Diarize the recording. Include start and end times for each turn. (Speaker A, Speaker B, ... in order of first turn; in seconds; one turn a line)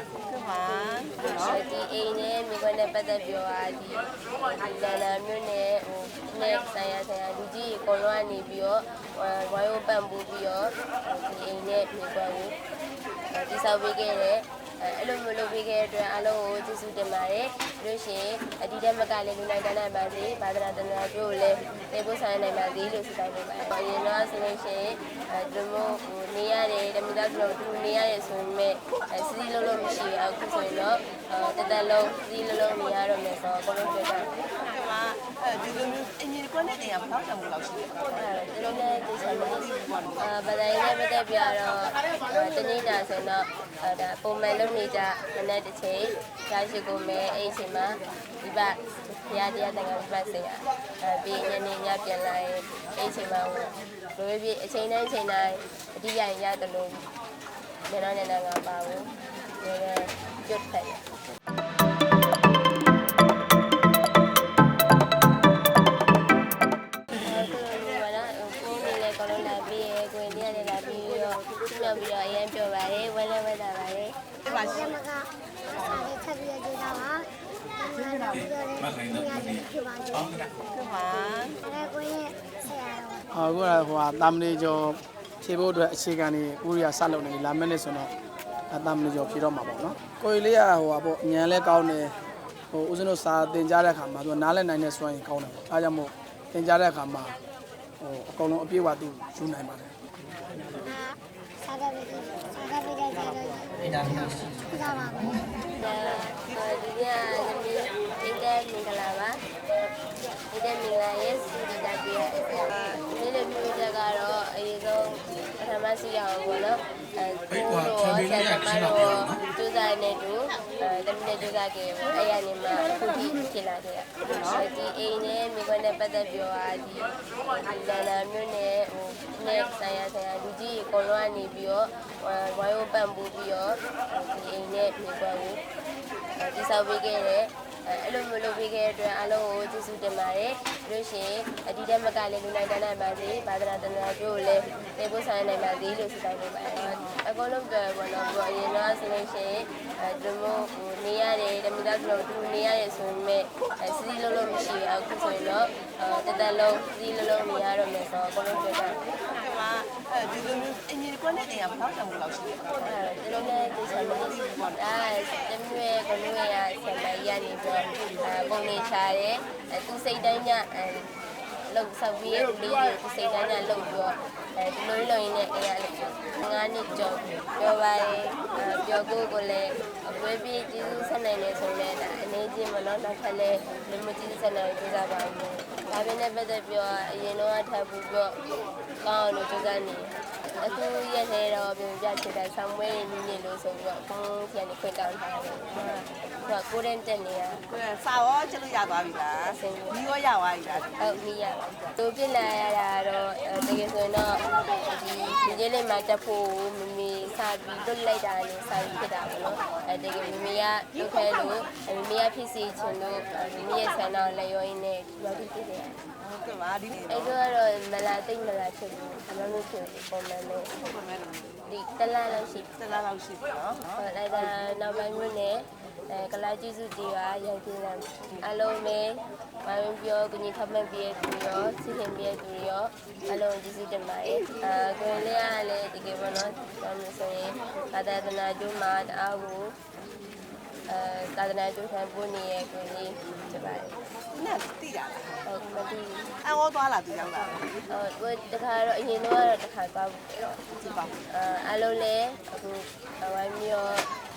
Speaker A: 0.3-1.6
Speaker B: 1.4-12.5
Speaker B: 13.3-34.3
Speaker A: 34.5-38.1
Speaker B: 38.1-57.0
Speaker A: 39.5-40.2
Speaker B: 57.9-59.1
Speaker B: 59.6-61.0
Speaker B: 67.2-74.2
Speaker C: 74.5-80.4
Speaker A: 74.5-74.8
Speaker A: 80.7-81.6
Speaker C: 81.6-83.2
Speaker D: 83.3-88.1
Speaker D: 88.7-92.2
Speaker D: 92.7-97.4
Speaker D: 98.0-100.0
Speaker C: 100.8-105.5
Speaker B: 105.8-109.4
Speaker B: 110.5-135.6
Speaker A: 124.3-124.6
Speaker B: 136.4-159.0
Speaker A: 159.2-162.7
Speaker B: 162.8-171.1
Speaker B: 171.7-188.4
Speaker B: 189.0-195.8
Speaker A: 195.8-196.1
Speaker B: 196.4-197.6
Speaker A: 197.7-200.9
Speaker B: 199.4-200.0
Speaker B: 201.0-216.0
Speaker A: 216.2-217.3
Speaker B: 217.1-220.7
Speaker A: 220.8-221.5
Speaker B: 221.7-222.7
Speaker A: 222.8-224.0
Speaker B: 224.0-239.8
Speaker B: 240.9-243.9
Speaker A: 244.3-245.4
Speaker B: 245.4-246.3
Speaker A: 246.4-247.6
Speaker B: 247.9-250.6
Speaker A: 250.8-251.1
Speaker B: 251.3-254.1